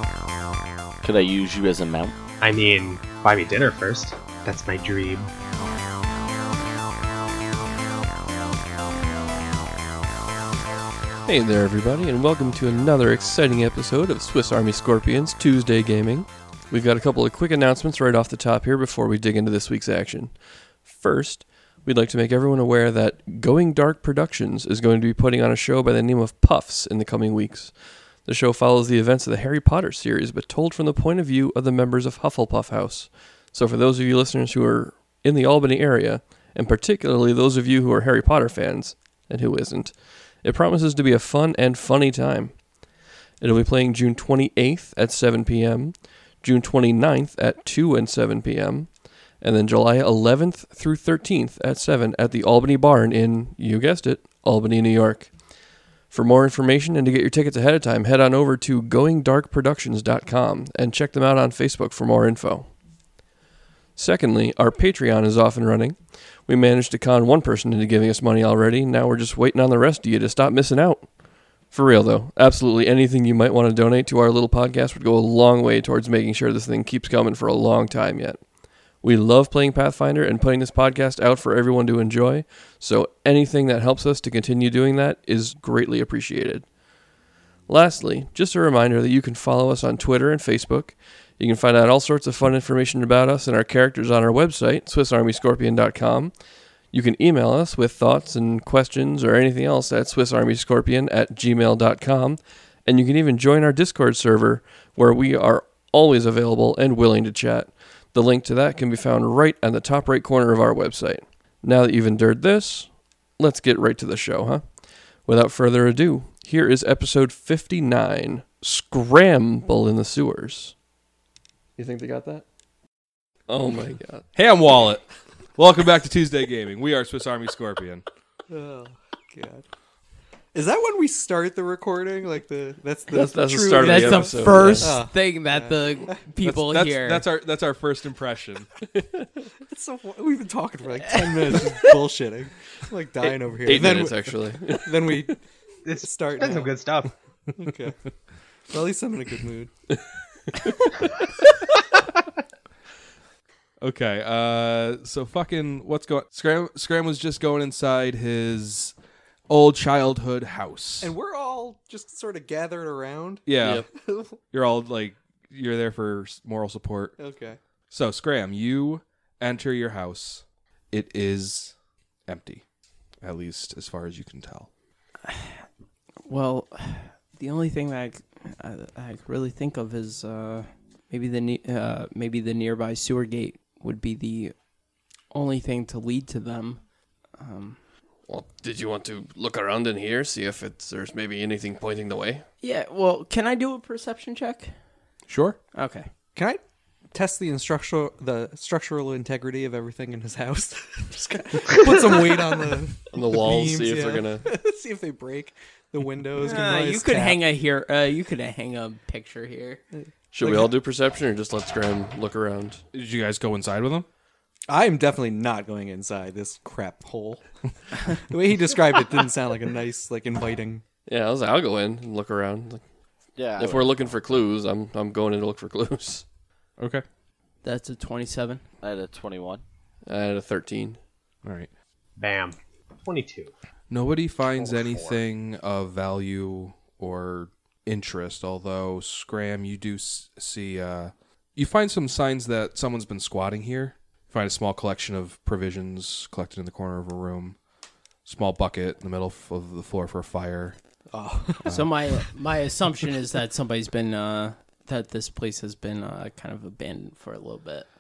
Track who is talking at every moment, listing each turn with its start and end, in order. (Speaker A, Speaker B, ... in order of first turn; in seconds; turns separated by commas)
Speaker A: 1.0-2.1, Speaker B: 2.4-5.3, Speaker C: 11.2-42.7, Speaker C: 43.4-62.8, Speaker C: 64.0-86.7, Speaker C: 87.7-120.8, Speaker C: 121.8-122.5, Speaker C: 123.5-124.3, Speaker D: 124.3-128.1, Speaker E: 128.5-129.6, Speaker E: 130.5-136.2, Speaker C: 133.1-135.0, Speaker F: 133.8-137.2, Speaker D: 136.4-138.7, Speaker E: 139.6-145.4, Speaker C: 143.6-145.3, Speaker B: 145.8-147.1, Speaker E: 146.0-146.8, Speaker E: 147.5-148.0, Speaker E: 148.7-149.7, Speaker D: 153.8-158.9, Speaker D: 159.5-161.2, Speaker E: 161.0-163.5, Speaker D: 163.5-163.9, Speaker C: 163.6-163.9, Speaker E: 164.0-164.4, Speaker D: 164.5-167.2, Speaker E: 167.2-167.6, Speaker D: 167.9-171.8, Speaker D: 172.3-172.7, Speaker D: 173.2-174.7, Speaker F: 175.2-175.7, Speaker F: 176.3-184.6, Speaker F: 185.3-187.8, Speaker C: 188.3-192.5, Speaker F: 192.6-194.8, Speaker D: 195.3-195.6, Speaker F: 195.7-196.1, Speaker E: 196.3-196.6, Speaker E: 197.1-207.4, Speaker C: 203.1-204.5, Speaker F: 206.4-209.8, Speaker E: 209.9-210.7, Speaker C: 210.3-212.8, Speaker D: 212.9-214.1, Speaker E: 214.7-220.8, Speaker C: 221.1-222.8, Speaker A: 223.4-224.1, Speaker C: 223.6-226.3, Speaker D: 226.8-227.0, Speaker F: 227.6-228.7, Speaker A: 228.8-229.6, Speaker C: 230.1-231.0, Speaker D: 231.4-231.7, Speaker B: 232.2-233.5, Speaker D: 233.9-247.6, Speaker B: 234.5-235.2, Speaker D: 248.3-250.8, Speaker E: 251.1-251.7, Speaker F: 251.7-257.9